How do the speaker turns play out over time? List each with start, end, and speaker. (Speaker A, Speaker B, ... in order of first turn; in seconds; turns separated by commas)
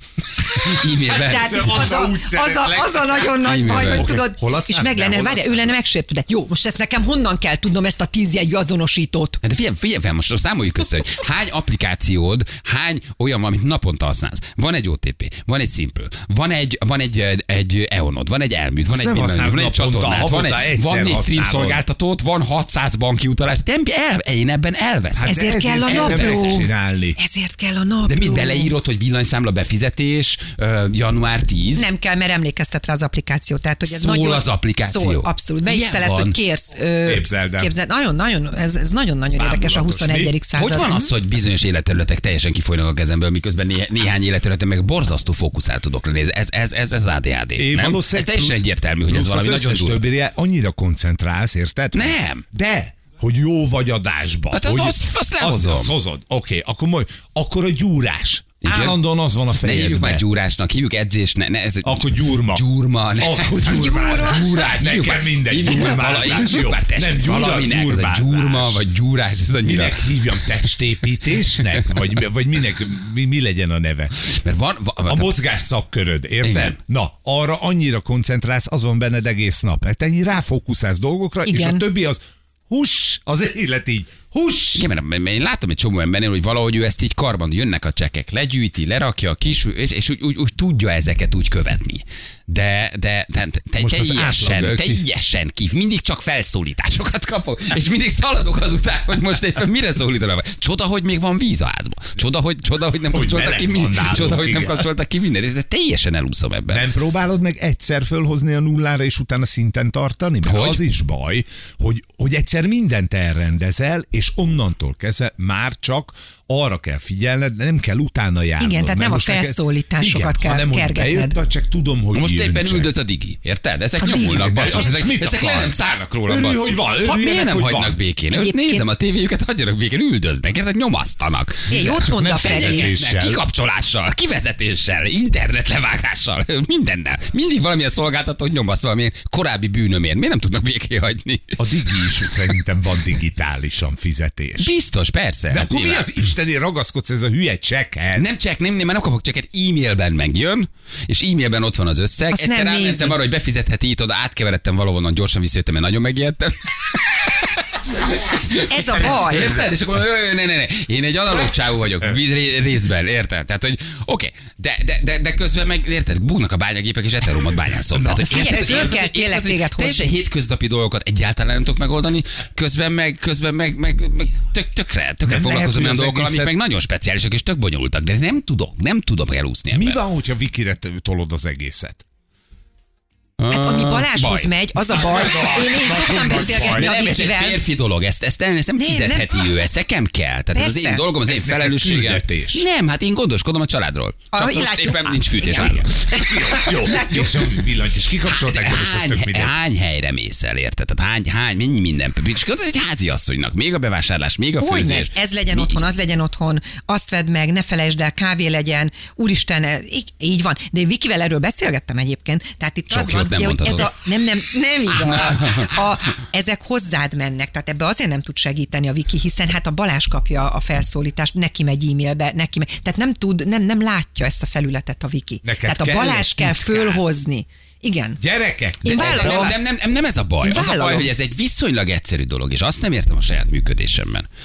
Speaker A: 0.5-1.9, Speaker B: 1.1-5.8, Speaker C: 1.2-9.4, Speaker A: 3.4-4.2, Speaker A: 9.4-26.6, Speaker B: 18.9-21.8, Speaker B: 25.1-27.2, Speaker C: 25.2-28.7, Speaker A: 28.1-31.9, Speaker C: 31.7-41.1, Speaker A: 33.8-36.4, Speaker B: 37.0-37.7, Speaker B: 39.3-40.4, Speaker A: 40.5-50.0, Speaker B: 47.6-60.2, Speaker A: 51.9-52.4, Speaker A: 54.5-55.9, Speaker A: 58.6-59.0, Speaker A: 59.6-70.8, Speaker B: 61.8-62.6, Speaker B: 63.2-68.8, Speaker C: 63.7-64.4, Speaker B: 69.6-74.2, Speaker A: 74.3-75.3, Speaker B: 75.0-84.8, Speaker A: 76.4-76.8, Speaker C: 81.4-81.8, Speaker A: 84.7-106.9, Speaker B: 93.8-95.0, Speaker B: 103.1-104.9, Speaker B: 106.7-122.9, Speaker A: 110.4-110.8, Speaker C: 118.6-121.4, Speaker A: 122.1-142.3, Speaker C: 124.0-125.0, Speaker B: 124.1-128.0, Speaker C: 128.3-128.9, Speaker C: 131.7-132.9, Speaker B: 131.8-133.4, Speaker B: 141.6-144.7, Speaker A: 144.6-146.2, Speaker B: 145.5-148.3, Speaker A: 148.2-180.0, Speaker C: 152.3-153.2, Speaker C: 158.5-159.6, Speaker B: 167.9-169.0, Speaker C: 168.3-170.2, Speaker B: 175.2-176.5, Speaker B: 179.7-182.0, Speaker A: 183.4-184.5, Speaker C: 183.5-187.6, Speaker B: 184.9-186.9, Speaker A: 186.2-197.2, Speaker C: 188.8-189.5, Speaker C: 190.5-191.0, Speaker B: 191.3-192.6, Speaker C: 194.3-197.6, Speaker B: 195.6-199.5, Speaker A: 198.3-205.9, Speaker C: 204.6-228.2, Speaker A: 212.9-213.9, Speaker A: 214.9-215.7, Speaker B: 225.4-227.0, Speaker B: 228.2-229.6, Speaker C: 228.8-229.5, Speaker A: 228.8-234.2, Speaker C: 230.4-231.1